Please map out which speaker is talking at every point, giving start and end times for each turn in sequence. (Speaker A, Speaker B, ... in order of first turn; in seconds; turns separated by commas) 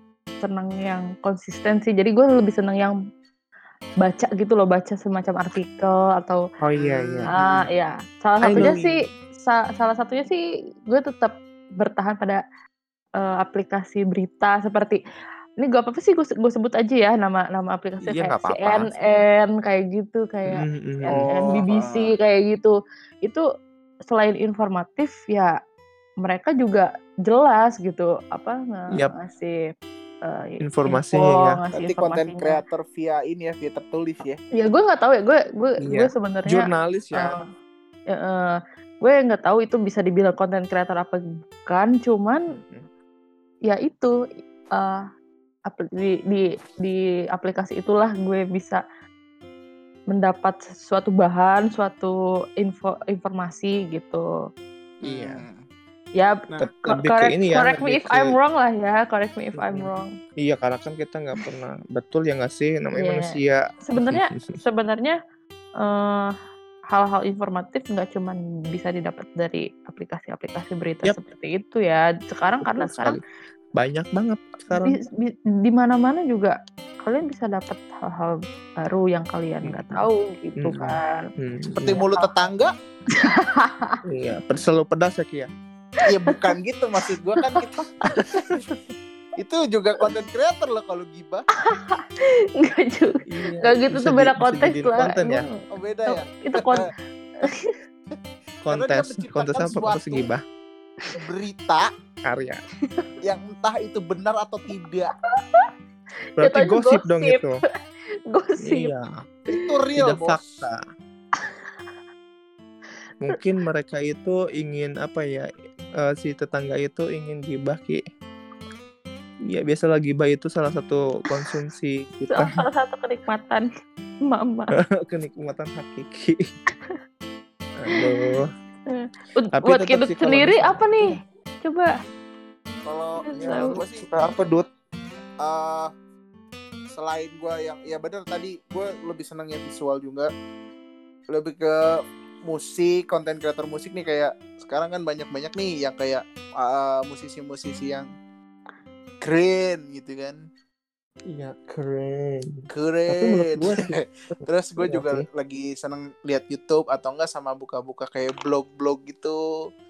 Speaker A: 0.4-3.0, Speaker A: 4.0-6.4, Speaker B: 6.6-7.3, Speaker C: 6.8-7.6, Speaker A: 7.3-12.4, Speaker B: 8.4-8.8, Speaker C: 8.5-8.9, Speaker A: 13.2-15.0, Speaker A: 15.6-23.4, Speaker B: 18.1-18.9, Speaker B: 20.5-21.2, Speaker C: 21.1-22.1, Speaker A: 24.1-25.6, Speaker A: 26.2-29.6, Speaker A: 30.2-32.6, Speaker B: 30.6-31.6, Speaker C: 31.7-34.4, Speaker A: 34.6-37.4, Speaker B: 35.8-37.4, Speaker A: 38.1-42.5, Speaker B: 42.5-42.9, Speaker A: 43.7-44.1, Speaker A: 44.7-45.0, Speaker A: 45.7-48.8, Speaker A: 50.1-54.3, Speaker B: 55.0-55.5, Speaker C: 55.0-55.6, Speaker A: 56.2-60.1, Speaker B: 56.6-58.3, Speaker B: 59.6-64.6, Speaker A: 62.9-65.1, Speaker A: 65.8-66.3, Speaker A: 66.9-73.2, Speaker B: 72.6-73.2, Speaker B: 73.7-75.0, Speaker A: 74.8-81.2, Speaker B: 79.7-80.0, Speaker B: 80.6-82.0, Speaker C: 81.8-82.7, Speaker A: 81.9-82.3, Speaker A: 83.1-84.0, Speaker B: 84.1-85.5, Speaker C: 86.1-88.0, Speaker A: 87.4-88.3, Speaker B: 88.2-88.6, Speaker C: 89.4-91.5, Speaker A: 91.6-96.9, Speaker B: 93.3-95.5, Speaker C: 95.7-96.8, Speaker A: 97.4-97.7, Speaker B: 98.6-100.4, Speaker C: 98.7-100.2, Speaker C: 101.1-101.9, Speaker B: 102.3-102.6, Speaker C: 103.2-105.1, Speaker A: 106.4-107.4, Speaker B: 106.4-107.5, Speaker A: 108.3-108.9, Speaker B: 108.6-109.2, Speaker C: 109.5-110.6, Speaker B: 110.0-110.8, Speaker A: 111.4-111.6, Speaker B: 113.2-115.5, Speaker B: 116.0-118.0, Speaker B: 119.5-122.6, Speaker A: 122.3-123.7, Speaker A: 124.3-124.7, Speaker B: 124.9-126.4, Speaker B: 127.8-128.5, Speaker A: 128.9-131.9, Speaker B: 129.6-131.0, Speaker C: 132.8-134.1, Speaker A: 133.2-133.8, Speaker B: 133.4-134.7, Speaker C: 135.4-135.9, Speaker C: 136.9-140.3, Speaker C: 141.3-148.1, Speaker C: 149.2-150.4, Speaker B: 151.3-155.2, Speaker C: 152.7-159.4